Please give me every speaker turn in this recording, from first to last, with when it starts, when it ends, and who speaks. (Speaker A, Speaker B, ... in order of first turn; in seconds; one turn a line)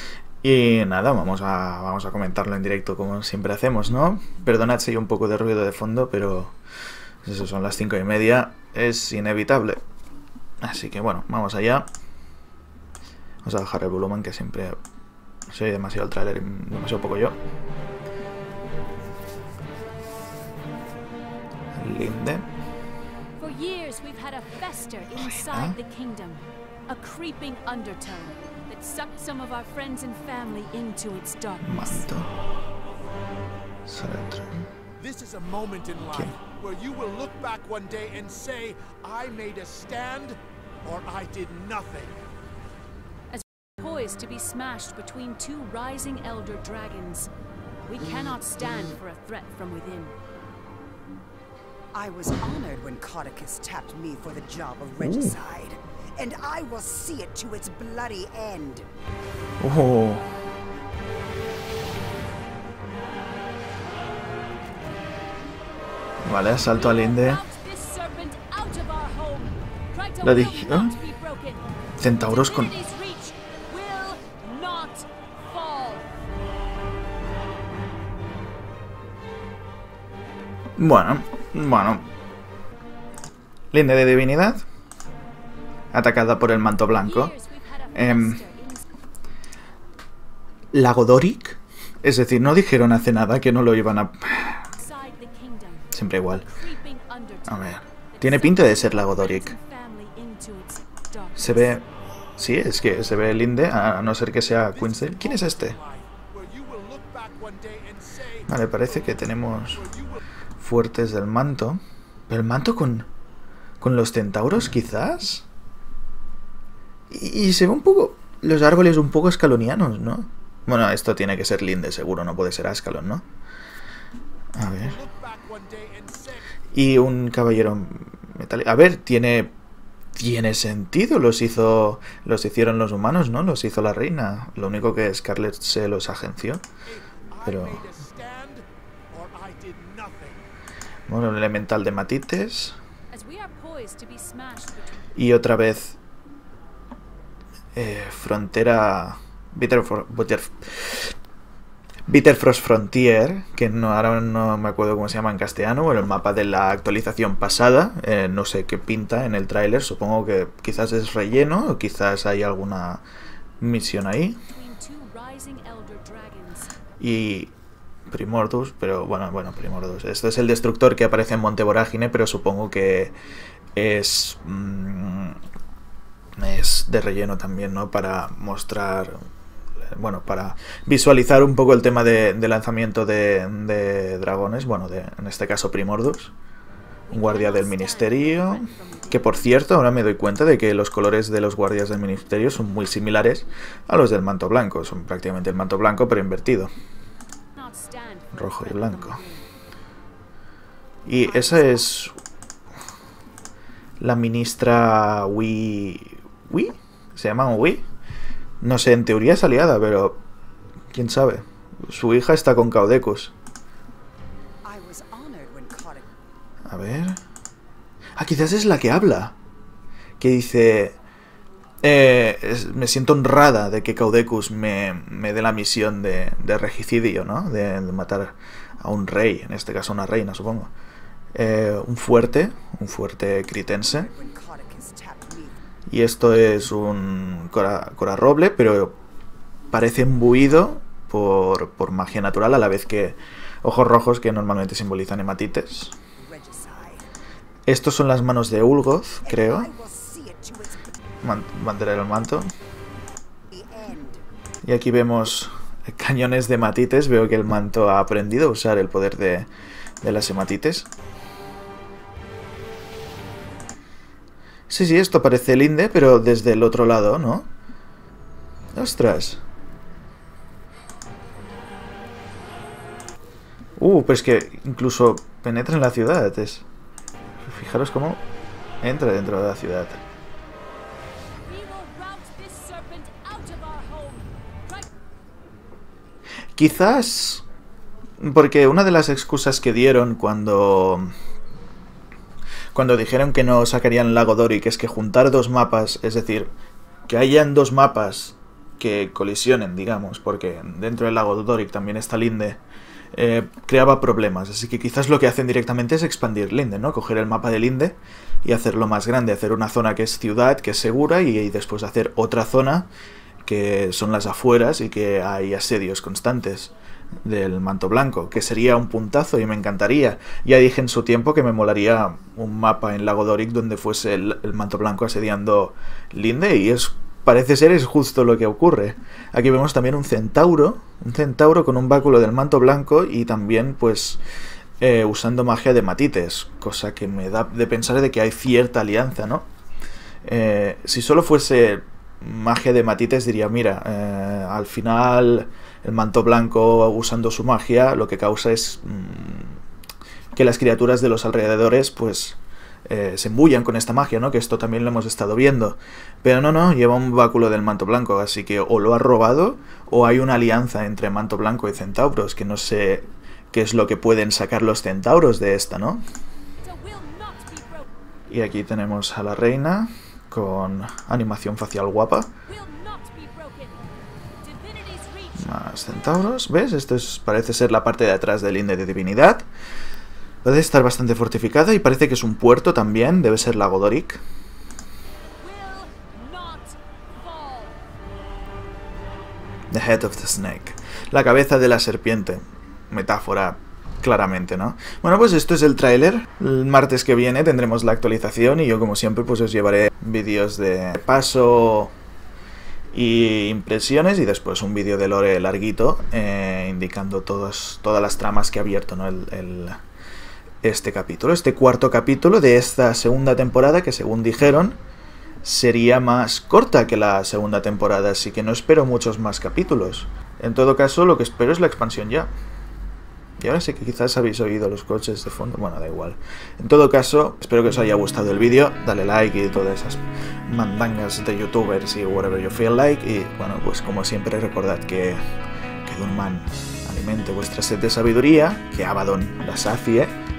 Speaker A: 0.4-6.5
Speaker A: 7.2-9.8
Speaker A: 10.6-11.9
Speaker A: 13.4-14.8
Speaker A: 15.5-17.4
Speaker A: 21.8-22.5
Speaker B: 23.4-32.1
Speaker A: 25.1-25.8
Speaker A: 31.6-32.3
Speaker A: 33.9-34.7
Speaker C: 35.0-42.1
Speaker B: 43.3-47.3
Speaker B: 47.9-50.1
Speaker D: 51.9-58.9
Speaker A: 55.0-55.4
Speaker A: 59.6-60.3
Speaker A: 66.2-67.4
Speaker B: 66.6-76.1
Speaker A: 70.2-71.0
Speaker A: 72.0-72.8
Speaker A: 80.8-82.1
Speaker A: 83.7-84.6
Speaker A: 85.9-87.3
Speaker B: 86.9-88.9
Speaker A: 87.9-88.4
Speaker A: 90.7-94.7
Speaker B: 94.7-101.8
Speaker A: 95.9-96.5
Speaker A: 97.5-99.5
Speaker A: 101.4-101.8
Speaker A: 102.4-105.8
Speaker C: 104.6-108.5
Speaker A: 108.5-109.8
Speaker C: 109.1-110.2
Speaker A: 110.6-113.1
Speaker A: 113.8-115.5
Speaker A: 117.1-123.2
Speaker A: 124.5-125.0
Speaker C: 124.8-126.5
Speaker A: 126.7-129.5
Speaker A: 130.1-136.6
Speaker C: 136.8-140.4
Speaker A: 137.4-137.9
Speaker A: 141.1-142.8
Speaker B: 143.1-145.1
Speaker A: 145.1-146.0
Speaker A: 147.7-151.1
Speaker A: 152.1-163.0
Speaker A: 163.6-164.4
Speaker B: 164.5-166.7
Speaker A: 167.0-167.5
Speaker A: 168.1-173.1
Speaker A: 173.8-175.4
Speaker A: 176.4-179.2
Speaker A: 179.9-186.3
Speaker B: 187.1-189.6
Speaker A: 187.1-196.7
Speaker B: 197.6-199.5
Speaker A: 198.3-199.2
Speaker A: 201.0-202.1
Speaker B: 201.2-201.9
Speaker A: 204.0-207.8
Speaker A: 208.6-210.2
Speaker A: 210.9-213.3
Speaker D: 214.6-216.1
Speaker A: 216.7-217.2
Speaker A: 218.2-219.3
Speaker A: 220.2-220.9
Speaker A: 221.8-230.7
Speaker A: 231.3-234.1
Speaker D: 233.8-235.6
Speaker A: 235.9-238.9
Speaker A: 239.7-245.9
Speaker D: 246.2-247.1
Speaker A: 247.7-249.7
Speaker D: 249.2-250.9
Speaker A: 251.2-252.5
Speaker D: 253.5-254.2
Speaker A: 254.6-259.5
Speaker A: 260.0-260.9
Speaker A: 264.7-267.5
Speaker A: 268.7-269.4
Speaker A: 273.8-276.6
Speaker A: 277.4-278.2
Speaker A: 278.8-280.0
Speaker B: 281.4-284.9
Speaker A: 286.6-287.4
Speaker A: 288.2-291.1
Speaker A: 292.7-296.5
Speaker A: 297.1-302.6
Speaker A: 303.1-312.9
Speaker A: 313.4-316.7
Speaker A: 317.2-334.2
Speaker A: 334.8-339.5
Speaker A: 340.2-349.6
Speaker A: 350.3-366.0
Speaker B: 366.6-367.9
Speaker A: 368.3-372.3
Speaker B: 372.4-373.9
Speaker B: 374.4-375.6
Speaker A: 375.4-379.4
Speaker A: 380.4-384.2
Speaker B: 385.4-387.8
Speaker A: 389.7-401.9
Speaker A: 402.9-409.8
Speaker A: 410.6-414.8
Speaker A: 415.4-422.3
Speaker A: 423.4-435.2
Speaker A: 435.8-440.1